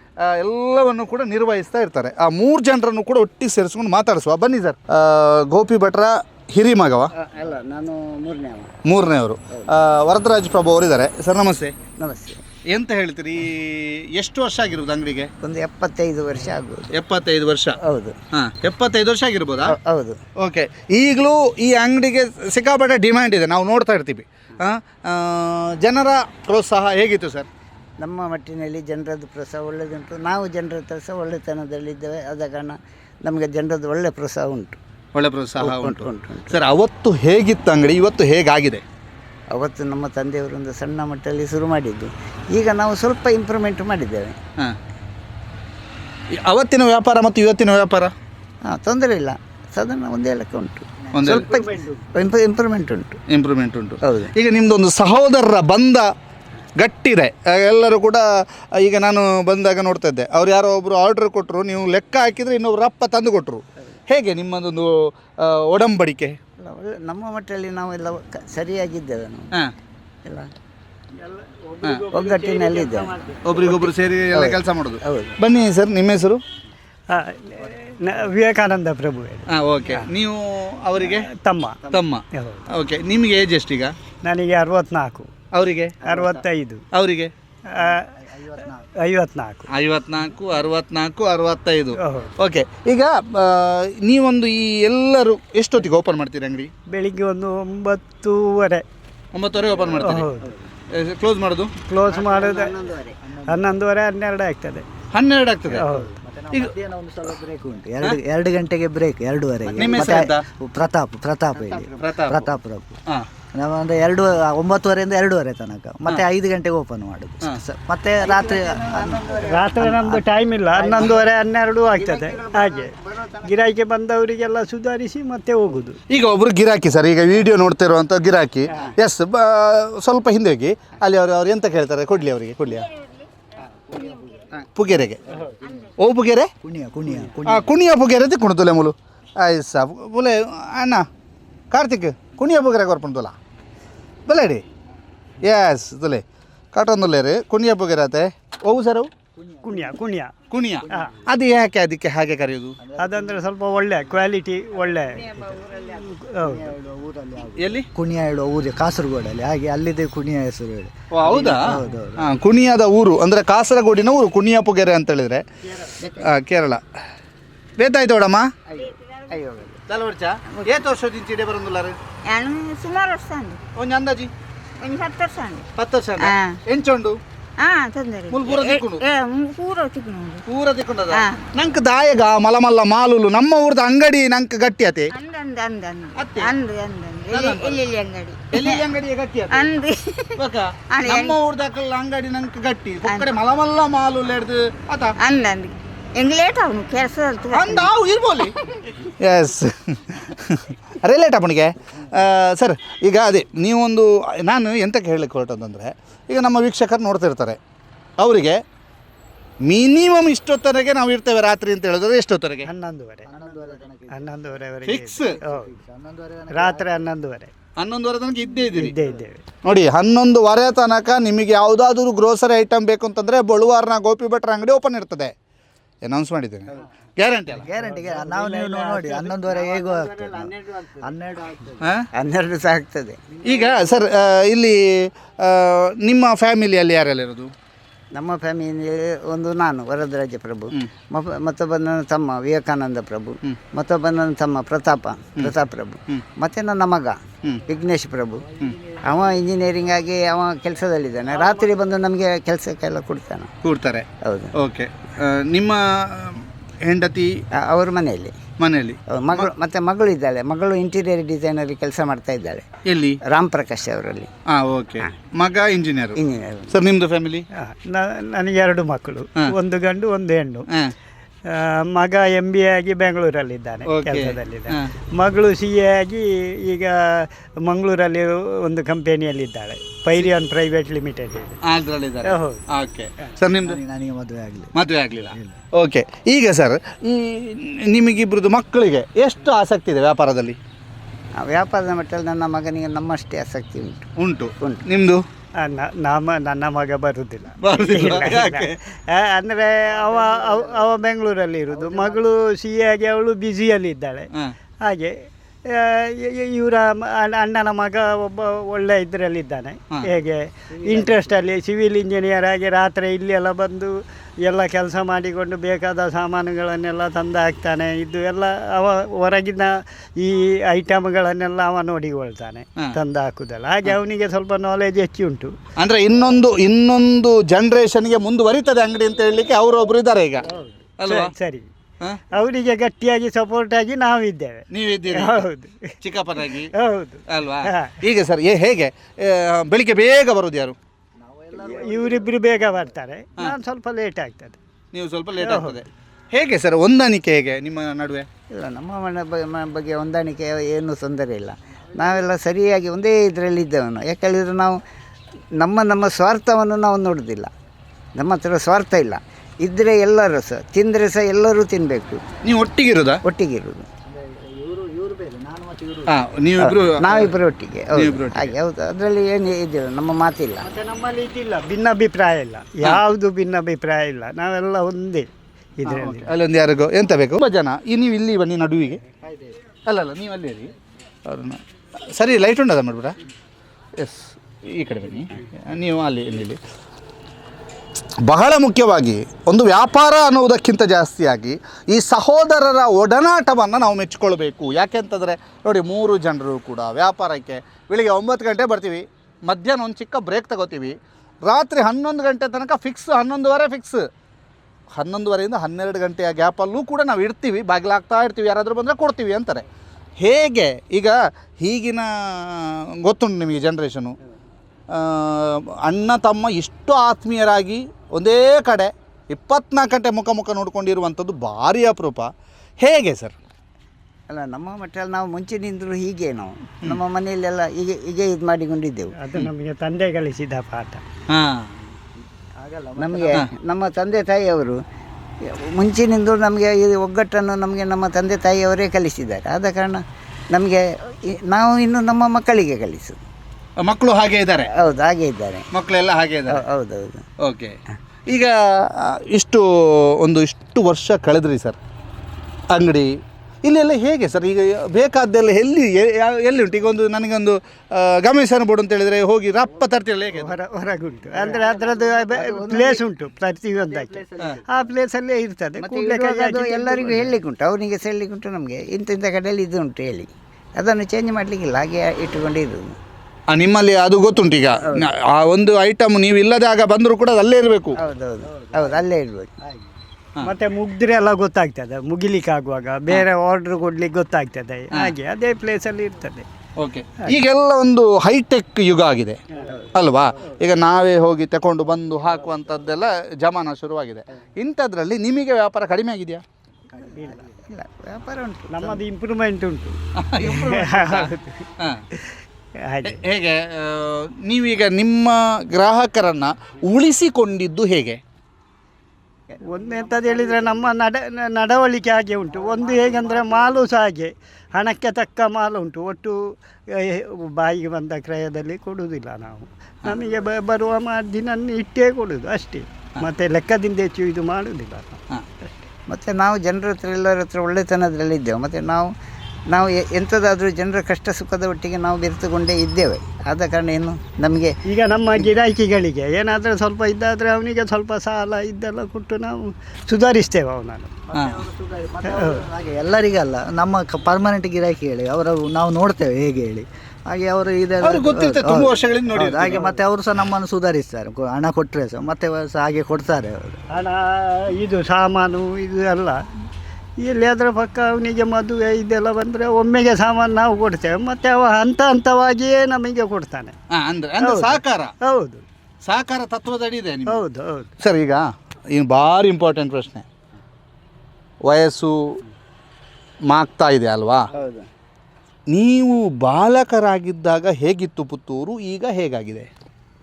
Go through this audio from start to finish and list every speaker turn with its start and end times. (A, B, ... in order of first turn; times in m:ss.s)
0:00.2-0:07.1 A
0:07.1-0:08.7 B
0:08.9-0:11.7 A
0:12.0-0:12.4 B
0:12.7-0:15.3 A
0:15.4-0:16.9 B
0:16.9-0:17.8 A
0:17.8-0:18.2 B
0:18.3-0:19.7 A
0:19.7-0:20.2 B
0:20.4-0:27.5 A
0:28.0-0:34.8 B
0:35.1-0:38.8 A
0:35.6-0:36.6 B
0:39.5-0:44.4 B
0:46.3-0:48.1 A
0:48.6-0:53.2 B
0:51.1-0:51.5 A
0:51.2-0:52.0 C
0:53.3-0:56.1 A
0:54.0-0:54.3 B
0:56.8-0:58.2 A
0:58.8-1:06.4 A
1:06.6-1:09.5 B
1:10.2-1:10.5 B
1:11.2-1:13.9 C
1:12.1-1:13.1 B
1:13.5-1:16.4 A
1:14.3-1:15.4 B
1:17.1-1:20.0 C
1:19.5-1:21.3 A
1:21.0-1:21.8 C
1:21.9-1:23.9 A
1:22.3-1:22.6 C
1:24.2-1:25.3 C
1:25.5-1:26.0 A
1:26.0-1:26.8 C
1:26.9-1:27.3 A
1:27.7-1:28.1 C
1:27.7-1:28.9 D
1:29.0-1:29.7 C
1:29.7-1:36.7 A
1:32.0-1:32.3 C
1:36.9-1:38.8 C
1:39.3-1:40.3 A
1:40.0-1:40.5 C
1:40.9-1:41.7 A
1:41.8-1:42.7 C
1:42.1-1:43.2 B
1:43.2-1:43.6 D
1:43.5-1:44.8 C
1:45.1-1:45.8 A
1:45.7-1:46.1 C
1:45.8-1:53.0 D
1:49.7-1:50.4 A
1:51.5-1:52.0 B
1:52.0-1:52.4 A
1:53.5-2:01.2 D
1:58.2-1:59.8 B
1:59.4-2:02.9 C
2:01.9-2:03.6 B
2:03.4-2:06.0 C
2:06.1-2:12.8 A
2:12.7-2:13.3 E
2:14.0-2:14.7 B
2:14.7-2:15.2 A
2:15.6-2:15.9 E
2:16.0-2:16.5 A
2:16.6-2:17.7 D
2:17.4-2:21.0 A
2:21.7-2:23.3 A
2:24.3-2:24.6 A
2:25.4-2:29.1 A
2:29.3-2:30.0 D
2:29.6-2:30.3 C
2:30.5-2:32.8 A
2:30.8-2:31.3 D
2:32.8-2:33.4 D
2:33.0-2:35.2 C
2:35.0-2:36.2 B
2:36.1-2:36.7 C
2:36.4-2:42.3 D
2:37.6-2:37.9 A
2:41.1-2:45.4 A
2:46.0-2:46.3 B
2:46.2-2:46.8 A
2:47.8-2:48.5 A
2:48.7-2:49.8 B
2:48.8-2:49.3 E
2:49.9-2:52.0 A
2:52.3-2:53.6 E
2:53.8-2:54.3 A
2:54.8-2:55.7 E
2:55.8-2:57.2 A
2:56.2-2:56.6 E
2:57.6-3:00.4 E
2:58.3-2:59.0 A
3:00.5-3:05.1 A
3:01.1-3:01.5 E
3:05.1-3:08.8 E
3:06.2-3:06.5 A
3:07.3-3:07.8 A
3:08.5-3:09.7 A
3:09.5-3:11.4 E
3:10.4-3:15.1 A
3:13.0-3:13.3 E
3:15.2-3:17.9 E
3:17.5-3:27.6 A
3:28.2-3:28.6 A
3:29.7-3:32.7 A
3:32.6-3:33.3 C
3:33.2-3:34.3 D
3:34.1-3:35.7 C
3:34.8-3:35.4 A
3:35.1-3:37.0 D
3:36.5-3:37.5 C
3:37.8-3:38.9 A
3:38.7-3:39.4 C
3:39.6-3:45.3 A
3:46.0-3:47.6 A
3:47.5-3:51.9 D
3:47.8-3:49.1 C
3:48.6-3:51.1 B
3:51.8-3:52.1 A
3:52.1-3:53.4 B
3:53.3-3:53.9 D
3:53.4-3:57.5 A
3:58.1-4:13.5 B
4:08.6-4:09.2 D
4:11.4-4:11.7 C
4:13.6-4:17.3 A
4:14.2-4:14.5 B
4:17.5-4:18.4 B
4:18.6-4:19.5 A
4:19.1-4:22.7 B
4:22.8-4:23.2 A
4:23.2-4:24.3 B
4:24.5-4:26.2 A
4:26.2-4:26.8 B
4:26.7-4:27.4 A
4:27.5-4:30.7 C
4:31.5-4:41.6 C
4:33.9-4:34.9 A
4:41.7-4:43.8 A
4:42.2-4:42.6 C
4:43.6-4:44.7 D
4:44.7-4:50.6 A
4:45.3-4:45.6 D
4:51.4-4:54.1 B
4:54.2-4:55.2 A
4:55.6-5:04.3 C
4:57.6-4:58.8 A
5:04.8-5:25.6 C
5:10.7-5:11.3 D
5:25.8-5:30.4 A
5:30.6-5:31.7 C
5:31.0-5:31.3 A
5:32.3-5:35.9 C
5:34.7-5:35.4 A
5:36.0-5:36.7 A
5:36.7-5:38.0 C
5:37.3-5:40.8 A
5:41.2-5:42.9 D
5:41.6-5:44.6 C
5:44.9-5:48.3 A
5:45.4-5:45.8 C
5:48.5-5:54.8 B
5:55.6-5:57.5 B
5:58.1-6:02.2 B
6:02.4-6:03.2 A
6:03.2-6:03.9 B
6:04.0-6:06.2 D
6:06.1-6:07.3 A
6:06.6-6:10.7 B
6:07.9-6:08.5 A
6:10.6-6:15.3 C
6:15.8-6:16.3 C
6:15.8-6:19.0 A
6:19.1-6:19.5 D
6:19.9-6:20.7 A
6:21.2-6:21.6 A
6:22.2-6:23.1 A
6:24.0-6:26.6 A
6:28.2-6:44.0 A
6:44.9-6:49.6 A
6:50.2-6:54.2 A
6:54.9-7:02.3 A
7:02.8-7:03.3 A
7:04.3-7:09.1 B
7:09.2-7:11.0 C
7:11.3-7:11.7 A
7:12.6-7:13.4 D
7:13.0-7:14.8 B
7:15.4-7:23.2 B
7:23.8-7:24.7 A
7:24.7-7:25.7 B
7:25.7-7:26.6 A
7:26.5-7:27.2 B
7:27.4-7:27.8 A
7:28.3-7:31.8 A
7:32.7-7:33.1 A
7:33.6-7:40.6 A
7:40.3-7:47.3 C
7:41.4-7:43.0 B
7:43.7-7:44.9 D
7:45.8-7:53.0 B
7:53.5-7:57.9 A
7:58.0-7:59.5 B
7:58.4-7:59.1 D
7:59.6-7:59.9 D
8:00.4-8:06.4 C
8:06.8-8:09.4 A
8:09.9-8:16.4 A
8:16.9-8:17.5 D
8:17.1-8:17.5 C
8:17.6-8:19.0 B
8:18.7-8:23.2 C
8:20.2-8:22.0 A
8:23.0-8:28.2 A
8:29.6-8:45.7 C
8:30.2-8:30.7 D
8:32.6-8:33.7 B
8:46.1-8:49.1 B
8:49.7-8:54.8 B
8:54.9-9:01.1 C
9:01.3-9:13.8 D
9:01.3-9:01.6 A
9:02.3-9:02.6 C
9:08.0-9:09.8 A
9:09.4-9:10.0 C
9:13.9-9:16.4 C
9:17.2-9:23.8 C
9:23.9-9:25.1 A
9:24.4-9:25.6 C
9:26.0-9:27.4 A
9:27.3-9:27.9 C
9:28.0-9:30.2 A
9:31.6-9:32.4 A
9:33.5-9:34.5 A
9:34.5-9:34.9 B
9:35.7-9:39.7 A